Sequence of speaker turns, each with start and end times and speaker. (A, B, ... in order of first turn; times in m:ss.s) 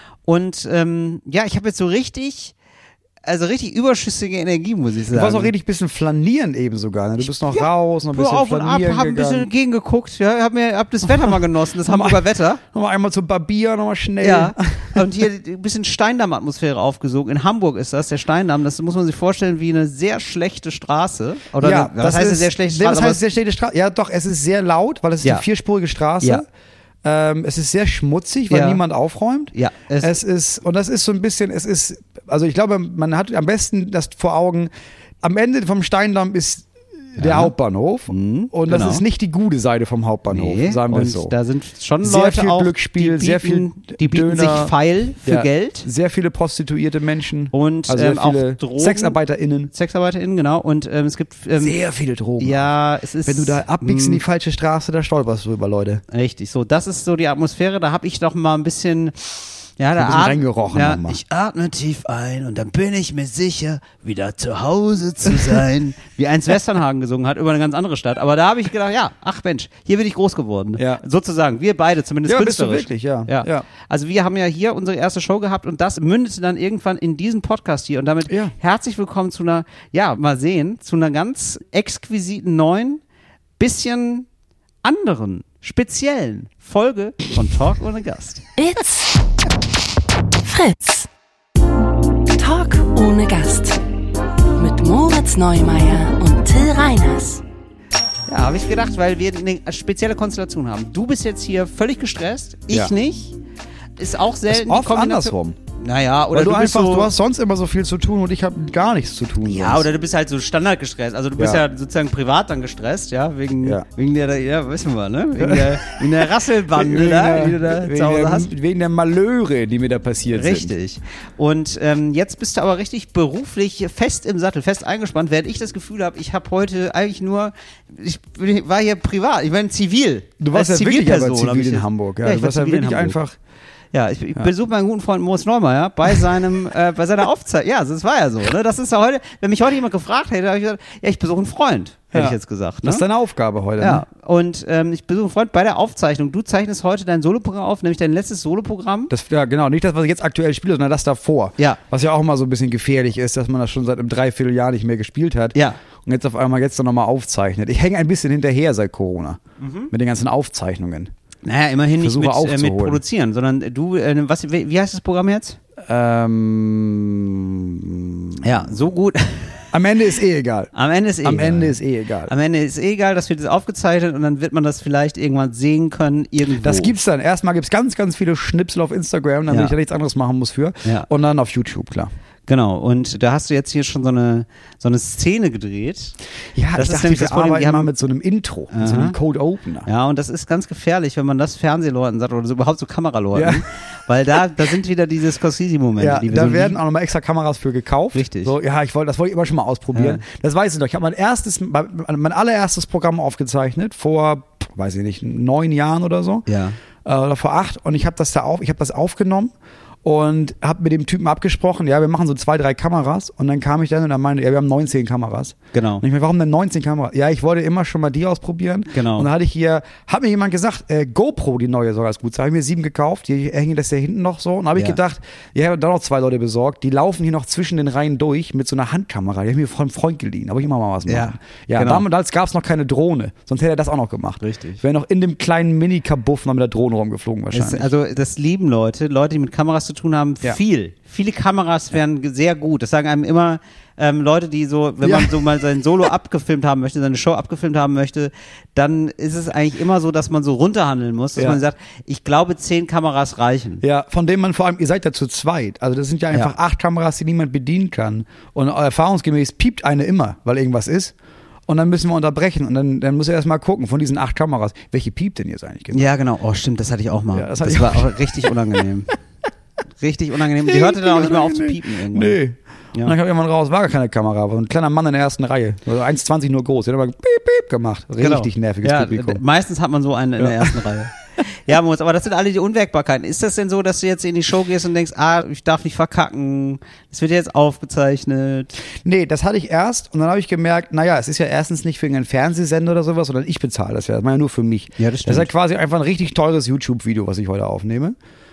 0:00.2-0:02.5 A
0:03.2-0:05.5 A
0:05.1-0:09.5 B
0:07.5-0:12.6 A
0:11.8-0:15.1 B
0:14.2-0:23.2 A
0:21.6-0:26.4 B
0:27.0-0:34.7 B
0:28.5-0:28.8 A
0:29.5-0:30.2 A
0:35.2-0:41.3 B
0:37.2-0:37.5 A
0:38.1-0:39.0 A
0:40.3-0:45.9 A
0:42.0-0:44.7 B
0:45.2-0:49.7 B
0:47.5-0:49.2 A
0:49.7-0:51.8 A
0:51.6-0:52.7 B
0:52.4-0:54.2 A
0:53.2-0:56.0 B
0:56.1-1:23.0 A
1:00.0-1:01.2 B
1:05.3-1:05.6 B
1:10.8-1:11.0 B
1:12.2-1:13.6 B
1:18.3-1:18.5 B
1:23.6-1:24.3 A
1:24.8-1:28.4 A
1:28.6-1:29.2 C
1:30.4-1:31.1 C
1:32.3-1:33.8 C
1:34.6-1:37.4 C
1:38.3-1:43.4 A
1:44.0-1:47.1 A
1:44.5-1:45.6 B
1:46.3-1:49.9 B
1:49.4-1:58.5 A
1:51.4-1:51.6 B
1:55.4-2:00.7 B
2:00.3-2:13.2 A
2:10.4-2:13.4 B
2:13.9-2:23.0 A
2:22.1-2:24.0 B
2:23.8-2:29.1 A
2:29.1-2:39.4 B
2:39.6-2:39.9 A
2:39.9-2:41.1 B
2:41.4-2:45.6 A
2:42.0-2:43.0 B
2:45.8-2:48.8 B
2:48.4-2:49.7 A
2:49.7-2:50.7 B
2:50.7-2:56.9 A
2:51.2-2:52.3 B
2:56.6-3:02.1 B
2:59.5-2:59.7 A
3:02.5-3:06.1 A
3:06.5-3:09.9 B
3:06.7-3:07.9 A
3:08.7-3:09.2 A
3:09.8-3:16.8 A
3:13.3-3:13.6 B
3:16.0-3:26.5 B
3:18.1-3:18.5 A
3:19.9-3:20.2 A
3:26.5-3:26.8 A
3:27.0-3:29.5 B
3:30.0-3:57.9 B
3:35.7-3:36.0 A
3:38.9-3:39.3 A
3:51.1-3:52.0 A
3:54.4-3:54.8 A
3:57.5-4:13.8 A
4:05.0-4:05.4 B
4:11.4-4:11.6 B
4:13.8-4:21.1 B
4:21.7-4:26.1 B
4:25.9-4:29.1 A
4:27.3-4:28.5 B
4:30.0-4:32.4 A
4:30.5-4:39.4 B
4:38.2-4:48.8 A
4:40.4-4:40.9 B
4:49.0-4:58.1 B
4:55.0-4:55.5 A